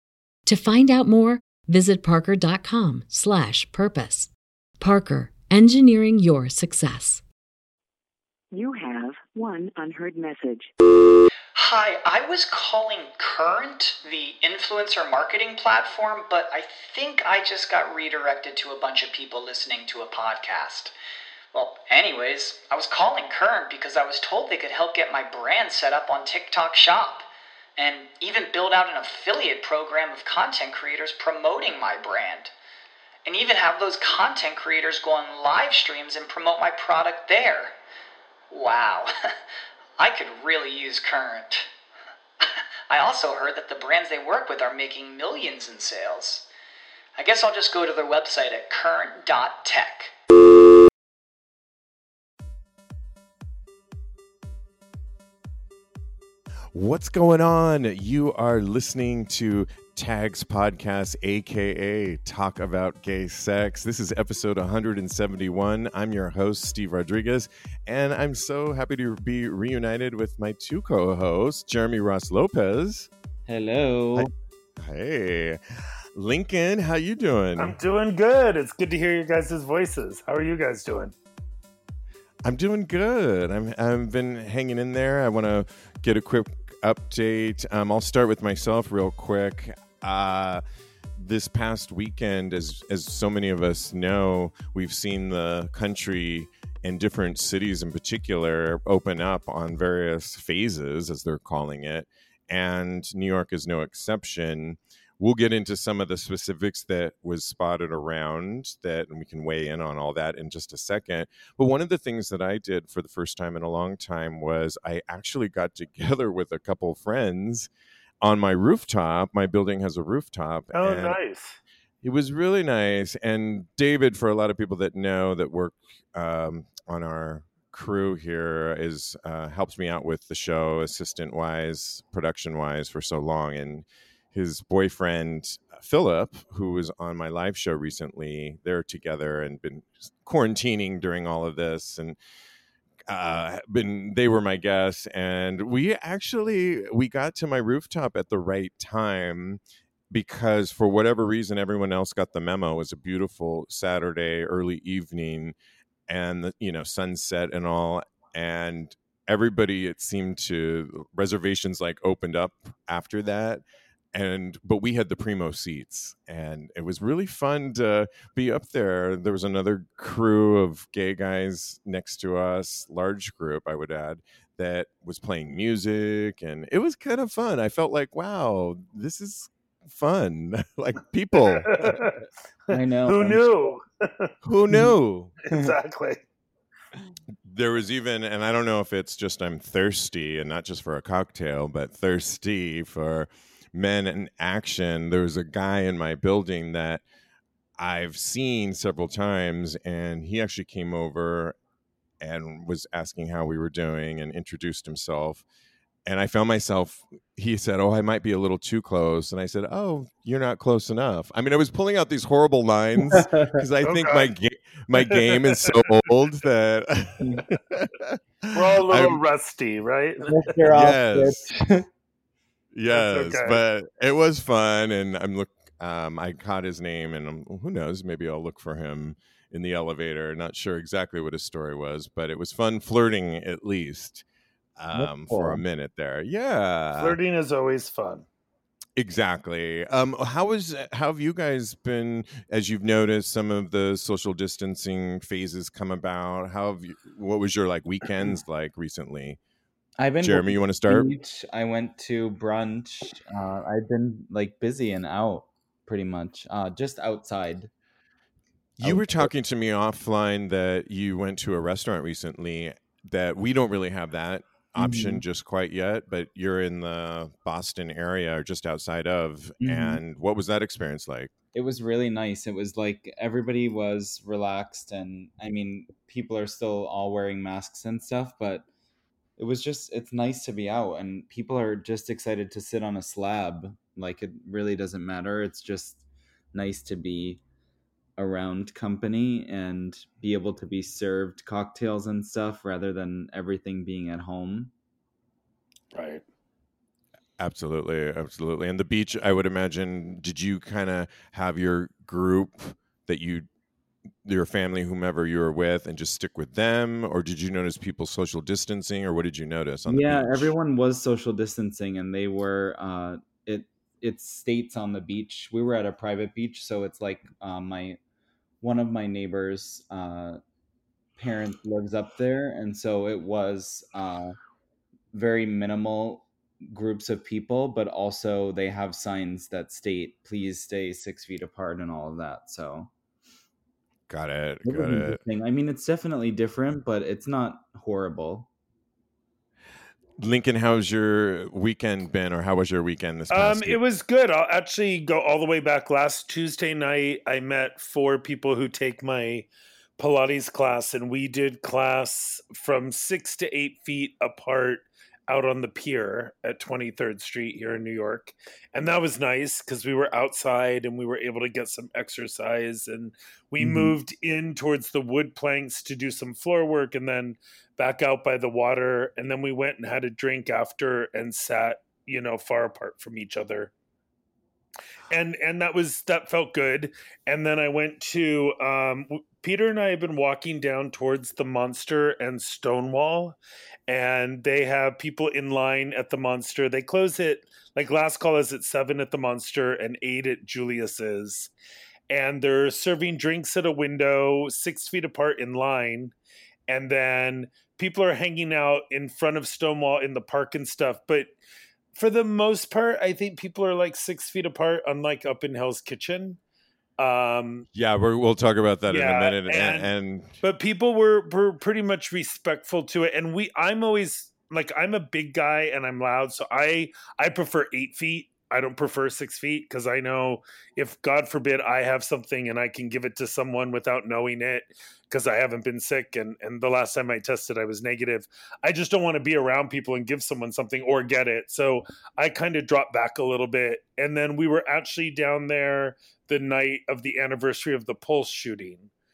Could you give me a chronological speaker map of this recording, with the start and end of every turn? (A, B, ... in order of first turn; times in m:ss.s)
0:00.4-0:07.2 A
0:08.5-0:10.7 B
0:11.5-0:20.9 C
0:21.5-0:32.5 C
0:33.2-0:37.7 C
0:38.5-0:39.3 C
0:40.0-0:41.7 C
0:42.9-0:46.5 C
0:47.2-0:50.1 C
0:56.7-1:13.1 D
1:13.4-1:14.3 E
1:14.1-1:15.6 D
1:16.1-1:17.8 D
1:17.6-1:21.1 F
1:22.4-1:30.6 D
1:31.2-1:57.7 D
1:58.2-2:01.2 D
2:00.7-2:01.6 F
2:02.0-2:22.2 D
2:23.1-2:29.6 D
2:30.1-2:35.5 D
2:36.1-2:43.6 D
2:44.1-3:02.0 D
3:01.4-3:04.3 F
3:02.7-3:03.5 E
3:04.4-3:05.4 D
3:05.4-3:06.2 F
3:07.4-3:17.0 D
3:17.8-3:21.6 D
3:22.2-3:25.4 D
3:26.0-3:39.2 D
3:33.0-3:33.6 E
3:33.8-3:34.3 F
3:35.0-3:36.0 F
3:38.5-3:40.4 F
3:40.3-3:41.9 E
3:40.6-3:41.4 D
3:42.7-3:54.2 D
3:42.9-3:43.6 F
3:54.8-3:57.2 D
3:54.9-3:55.6 E
3:57.0-3:58.2 F
3:59.0-4:09.4 D
4:10.0-4:17.7 E
4:10.2-4:11.1 D
4:18.8-4:31.3 D
4:18.8-4:19.3 E
4:24.8-4:25.2 E
4:29.6-4:30.0 E
4:31.5-4:38.7 E
4:39.4-4:46.0 E
4:46.5-4:47.4 E
4:48.2-4:54.7 E
4:55.9-4:56.2 F
4:57.4-5:03.4 D
5:04.2-5:10.5 D
5:09.9-5:18.0 E
5:18.6-5:20.4 E
5:21.2-5:24.4 E
5:25.1-5:32.9 E
5:34.1-5:35.2 D
5:34.6-5:38.5 E
5:40.2-5:43.8 D
5:43.3-6:13.7 F
6:03.6-6:03.9 E
6:15.1-6:23.4 F
6:23.9-6:31.5 F
6:32.1-6:36.1 F
6:36.7-6:41.3 F
6:41.9-6:46.4 F
6:47.0-6:47.7 F
6:47.7-6:50.4 D
6:48.9-6:49.9 F
6:50.4-7:18.9 F